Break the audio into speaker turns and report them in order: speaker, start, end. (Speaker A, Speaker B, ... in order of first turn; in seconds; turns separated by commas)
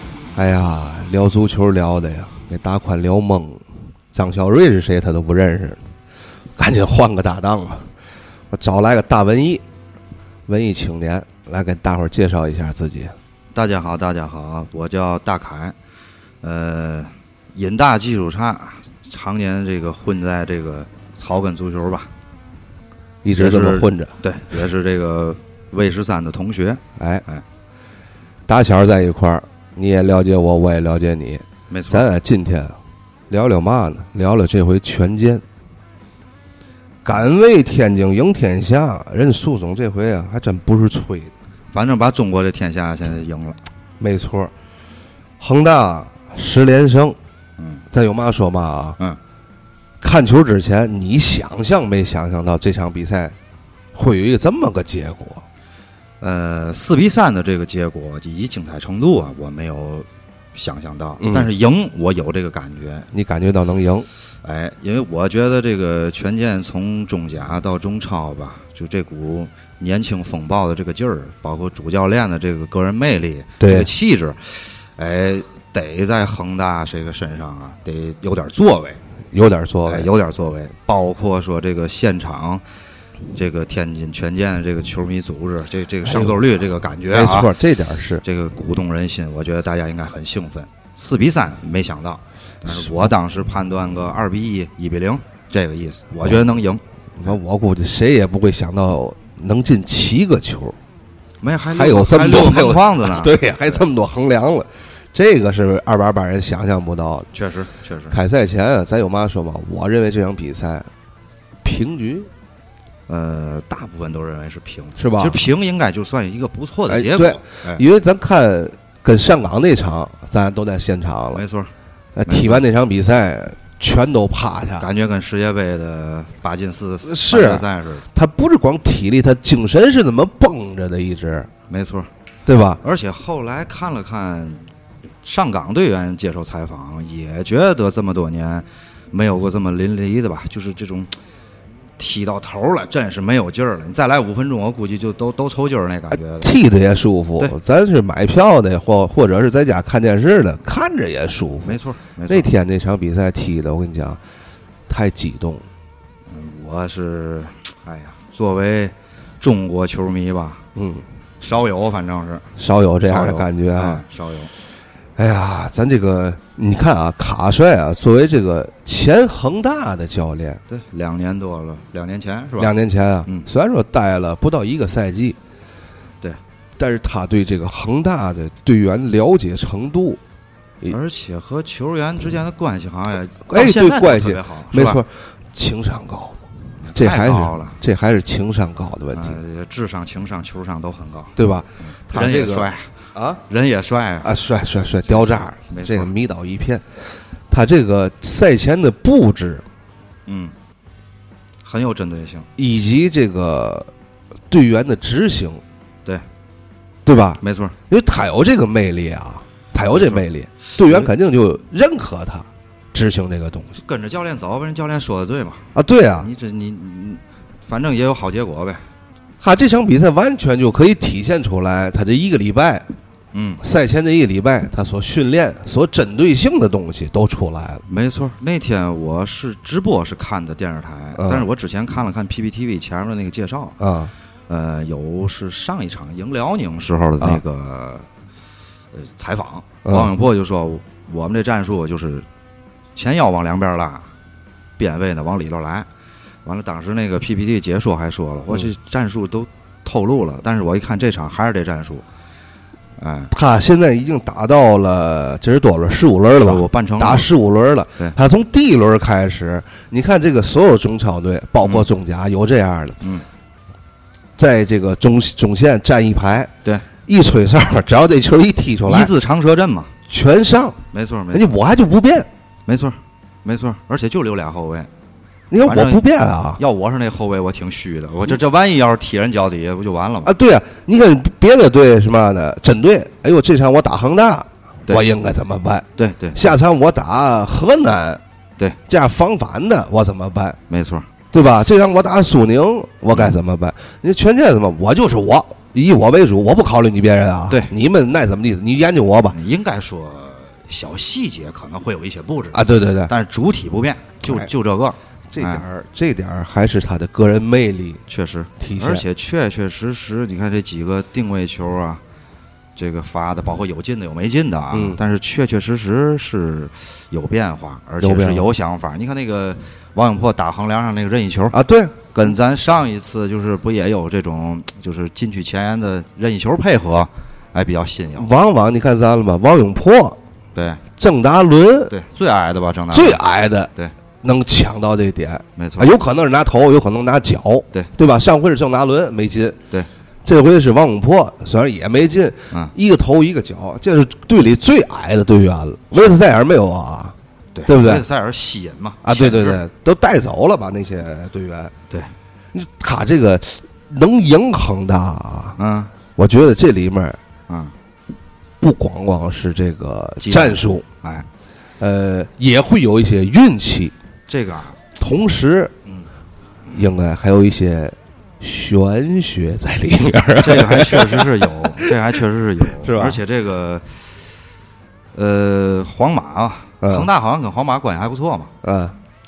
Speaker A: 0.3-5.8, Speaker A: 6.6-7.9, Speaker A: 8.5-9.6, Speaker A: 10.5-13.2, Speaker B: 13.5-15.8, Speaker B: 16.4-22.1, Speaker A: 23.2-24.1, Speaker B: 23.3-27.4, Speaker A: 27.0-27.2, Speaker A: 28.5-32.8, Speaker B: 31.7-32.1, Speaker A: 33.3-35.4, Speaker A: 37.0-41.3, Speaker B: 41.7-43.6, Speaker A: 44.0-44.5, Speaker A: 45.4-47.2, Speaker B: 47.6-47.8, Speaker A: 47.9-49.0, Speaker A: 50.0-53.4, Speaker A: 53.9-55.4, Speaker B: 56.2-63.1, Speaker A: 61.2-61.5, Speaker A: 63.1-64.1, Speaker B: 64.4-79.0, Speaker A: 73.6-73.9, Speaker A: 79.3-80.1, Speaker B: 79.9-82.6, Speaker B: 83.3-87.5, Speaker A: 86.0-86.5, Speaker A: 87.1-88.2, Speaker B: 88.2-96.8, Speaker A: 92.7-93.1, Speaker A: 97.2-100.8, Speaker B: 101.4-103.4, Speaker A: 101.8-107.3, Speaker B: 107.3-108.2, Speaker A: 108.1-110.9, Speaker A: 111.6-112.3, Speaker B: 113.1-117.8, Speaker A: 115.0-115.4, Speaker A: 116.9-121.4, Speaker B: 121.3-121.7, Speaker A: 122.2-124.9, Speaker B: 122.3-122.6, Speaker B: 124.8-128.1, Speaker A: 127.0-131.5, Speaker B: 131.7-132.1, Speaker A: 132.5-132.8, Speaker B: 132.8-134.6, Speaker B: 135.2-141.1, Speaker B: 142.0-146.5, Speaker A: 146.4-154.2, Speaker B: 151.6-152.5, Speaker A: 154.9-155.7, Speaker B: 156.3-160.6, Speaker A: 160.8-161.1, Speaker B: 161.4-162.5, Speaker A: 162.6-164.0, Speaker B: 163.1-164.5, Speaker A: 165.2-170.6, Speaker B: 170.7-172.7, Speaker A: 172.6-175.4, Speaker A: 176.8-180.2, Speaker B: 180.9-185.0, Speaker A: 183.5-186.4, Speaker B: 186.9-187.8, Speaker A: 186.9-189.4, Speaker B: 189.1-191.3, Speaker A: 191.4-193.4, Speaker B: 192.1-192.9, Speaker B: 193.5-194.3, Speaker A: 194.2-196.9, Speaker B: 195.1-196.1, Speaker A: 197.5-199.6, Speaker B: 200.3-200.5, Speaker B: 201.7-202.5, Speaker A: 202.6-203.9, Speaker A: 204.5-205.6, Speaker A: 207.1-213.8, Speaker B: 207.4-207.8, Speaker B: 209.8-210.2, Speaker B: 210.8-211.1, Speaker B: 213.8-215.7, Speaker A: 215.8-216.3, Speaker B: 216.2-218.8, Speaker A: 219.4-222.8, Speaker B: 223.3-223.6, Speaker A: 223.6-227.8, Speaker B: 227.9-233.8, Speaker A: 231.2-231.5, Speaker A: 233.8-234.1, Speaker B: 234.5-238.1, Speaker B: 238.9-242.3, Speaker A: 239.8-240.1, Speaker B: 242.9-244.1, Speaker B: 244.8-245.9, Speaker B: 246.4-252.0, Speaker B: 253.0-253.3, Speaker A: 253.3-263.0, Speaker B: 256.3-257.3, Speaker A: 264.4-266.5, Speaker A: 267.1-269.1, Speaker B: 268.8-269.9, Speaker A: 270.1-270.8, Speaker B: 270.9-271.4, Speaker A: 271.3-272.3, Speaker B: 272.7-274.9, Speaker A: 275.5-276.6, Speaker B: 275.6-276.0, Speaker B: 276.6-280.3, Speaker A: 280.2-288.2, Speaker B: 286.0-286.6, Speaker A: 288.9-290.6, Speaker B: 290.7-291.1, Speaker A: 291.3-299.4, Speaker B: 299.3-305.6, Speaker A: 302.5-303.1, Speaker A: 304.2-304.5, Speaker A: 305.3-308.0, Speaker B: 308.1-312.0, Speaker A: 308.6-309.1, Speaker B: 312.8-321.6, Speaker A: 314.7-315.0, Speaker A: 318.0-318.5, Speaker A: 321.5-322.0, Speaker B: 322.1-328.3, Speaker A: 328.2-330.2, Speaker B: 330.6-330.8, Speaker A: 331.0-331.9, Speaker B: 331.9-333.2, Speaker A: 332.9-333.7, Speaker A: 334.2-339.6, Speaker B: 335.6-335.9, Speaker A: 340.2-347.1, Speaker B: 347.6-349.6, Speaker A: 347.7-348.1, Speaker A: 349.0-351.7, Speaker A: 352.5-355.6, Speaker B: 355.6-355.9, Speaker A: 356.2-357.2, Speaker B: 357.5-357.7, Speaker A: 358.6-360.9, Speaker B: 360.2-361.3, Speaker A: 361.8-363.9, Speaker B: 364.3-364.8, Speaker A: 365.0-365.7, Speaker A: 366.7-371.4, Speaker B: 370.4-373.9, Speaker A: 372.7-373.2, Speaker B: 375.1-378.5, Speaker A: 376.8-377.1, Speaker A: 378.6-379.0